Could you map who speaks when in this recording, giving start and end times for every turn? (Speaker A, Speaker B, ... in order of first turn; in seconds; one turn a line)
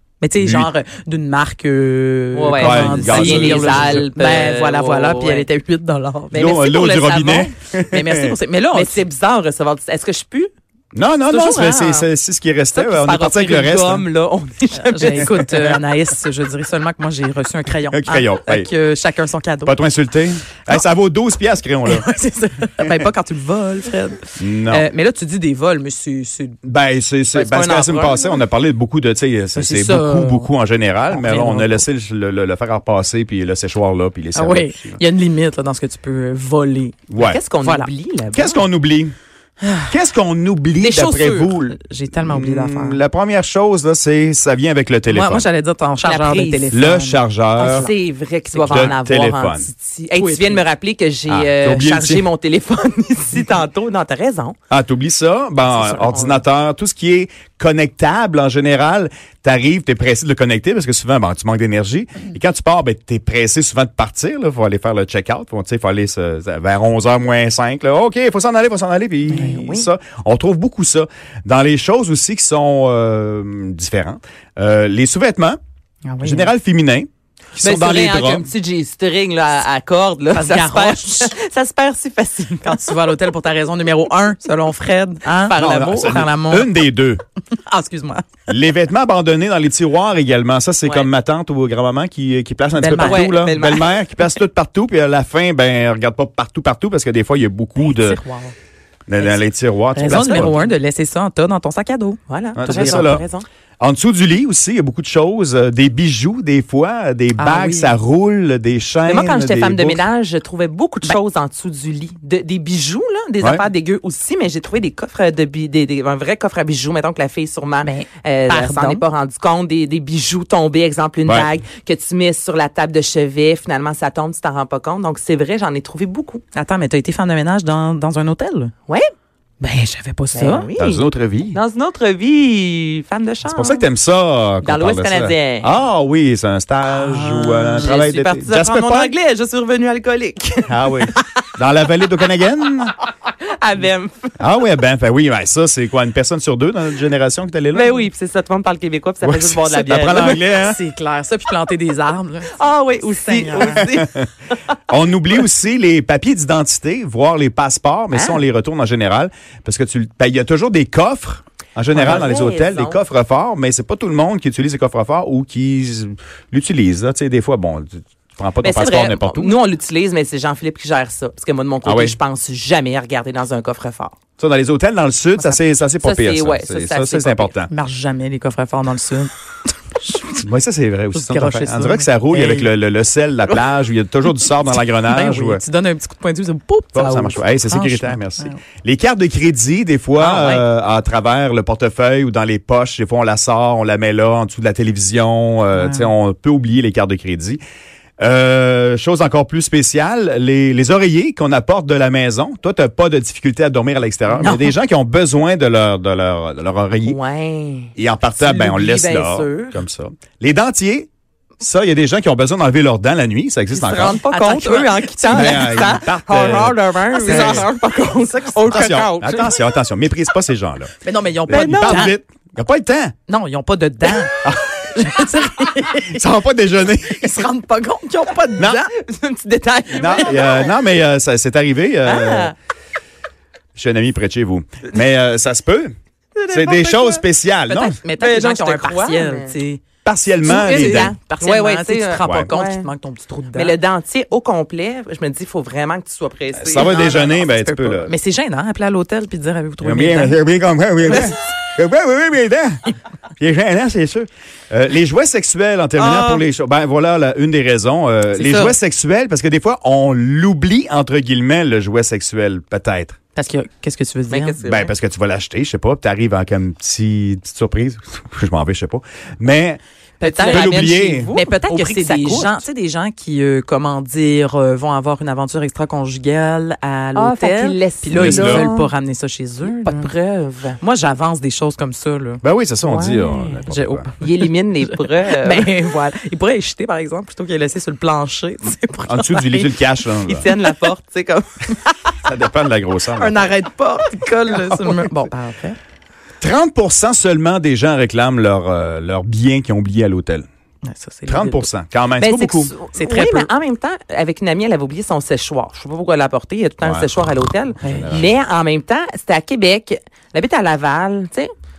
Speaker A: 0.2-6.4
Speaker B: 0.4-0.7
Speaker C: 2.3-5.5
Speaker B: 2.6-4.0
Speaker C: 6.3-7.5
Speaker B: 6.3-8.4
Speaker A: 7.9-9.0
Speaker C: 8.7-10.5
Speaker B: 10.9-14.1
Speaker C: 11.3-12.1
Speaker C: 12.7-15.7
Speaker A: 14.8-19.8
Speaker B: 17.9-18.7
Speaker B: 19.6-22.1
Speaker A: 21.8-26.6
Speaker B: 24.4-24.9
Speaker B: 26.6-35.0
Speaker C: 27.3-28.4
Speaker A: 29.5-30.5
Speaker A: 31.1-31.8
Speaker A: 34.3-37.0
Speaker B: 37.1-37.4
Speaker C: 37.1-38.6
Speaker A: 37.6-37.9
Speaker B: 38.3-39.1
Speaker A: 39.6-40.0
Speaker B: 39.9-45.5
Speaker C: 40.8-41.4
Speaker A: 41.3-43.0
Speaker A: 45.1-47.8
Speaker C: 46.0-46.7
Speaker B: 46.7-47.9
Speaker C: 47.5-54.6
Speaker A: 48.5-48.9
Speaker B: 48.7-49.7
Speaker A: 50.1-50.6
Speaker B: 51.3-52.2
Speaker B: 54.7-75.6
Speaker C: 55.7-56.4
Speaker C: 69.3-69.9
Speaker A: 76.0-76.5
Speaker B: 76.2-78.5
Speaker C: 77.6-83.1
Speaker A: 80.3-81.3
Speaker A: 82.6-86.7
Speaker C: 85.4-86.0
Speaker B: 85.5-87.2
Speaker A: 87.7-88.3
Speaker B: 88.5-98.2
Speaker C: 90.8-91.1
Speaker A: 92.8-93.4
Speaker C: 93.0-93.9
Speaker A: 97.8-98.5
Speaker B: 99.1-100.6
Speaker A: 99.9-103.2
Speaker C: 100.1-100.7
Speaker C: 102.3-103.5
Speaker B: 102.5-103.2
Speaker B: 103.8-110.0
Speaker A: 107.4-107.9
Speaker C: 109.0-126.4
Speaker A: 117.8-119.0
Speaker A: 126.5-128.7
Speaker A: 129.6-130.7
Speaker C: 130.3-133.8
Speaker B: 130.8-131.6
Speaker B: 133.5-139.1
Speaker C: 134.6-135.7
Speaker A: 136.9-137.9
Speaker C: 137.3-141.4
Speaker B: 140.7-142.9
Speaker C: 143.2-144.3
Speaker B: 144.4-147.9
Speaker C: 147.7-150.4
Speaker B: 149.2-150.8
Speaker A: 150.1-152.5
Speaker C: 152.5-154.3
Speaker A: 153.1-153.8
Speaker B: 153.6-154.2
Speaker B: 154.9-169.6
Speaker C: 158.1-158.4
Speaker C: 161.9-163.0
Speaker C: 168.6-174.2
Speaker B: 171.8-172.2
Speaker B: 174.4-177.7
Speaker C: 176.0-177.5
Speaker A: 177.7-179.3
Speaker A: 180.0-180.4
Speaker B: 180.4-185.6
Speaker A: 181.1-182.7
Speaker A: 184.7-188.6
Speaker B: 186.9-197.6
Speaker A: 190.2-190.6
Speaker A: 195.7-196.1
Speaker B: 198.2-207.2
Speaker A: 204.3-204.7
Speaker C: 207.0-209.8
Speaker B: 207.9-211.1
Speaker B: 211.6-214.2
Speaker C: 213.7-219.6
Speaker A: 214.0-216.1
Speaker B: 215.3-217.7
Speaker A: 217.2-217.7
Speaker B: 218.7-220.9
Speaker A: 221.0-222.1
Speaker B: 221.4-223.1
Speaker C: 221.5-222.1
Speaker A: 223.3-226.2
Speaker B: 224.4-225.0
Speaker B: 226.0-227.5
Speaker A: 227.0-228.8
Speaker B: 228.6-228.8
Speaker C: 228.6-230.7
Speaker B: 229.9-232.5
Speaker C: 232.0-232.5
Speaker B: 233.8-235.9
Speaker C: 236.4-237.2
Speaker B: 236.5-237.9
Speaker A: 237.7-239.8
Speaker C: 237.7-239.5
Speaker B: 240.0-241.1
Speaker C: 240.4-242.8
Speaker A: 240.4-243.8
Speaker B: 242.2-242.5
Speaker C: 243.5-247.4
Speaker B: 246.6-248.1
Speaker A: 246.8-250.3
Speaker B: 249.8-252.8
Speaker B: 253.4-263.2
Speaker C: 256.0-256.4
Speaker C: 258.4-258.7
Speaker A: 263.3-264.6
Speaker C: 264.3-264.9
Speaker B: 264.6-269.8
Speaker A: 270.2-280.1
Speaker C: 270.2-272.6
Speaker B: 270.5-271.3
Speaker C: 277.1-278.9
Speaker B: 278.1-278.6
Speaker C: 279.8-280.8
Speaker A: 280.8-282.4
Speaker B: 282.4-284.1
Speaker C: 282.9-283.6
Speaker A: 283.6-289.8
Speaker C: 284.2-285.8
Speaker B: 289.1-290.5
Speaker C: 290.3-291.8
Speaker B: 292.2-293.5
Speaker A: 293.2-295.8
Speaker B: 296.4-300.4
Speaker A: 300.8-301.7
Speaker B: 301.3-302.7
Speaker C: 302.2-311.5
Speaker A: 302.9-303.5
Speaker B: 306.8-307.1
Speaker A: 307.8-308.2
Speaker B: 307.9-308.4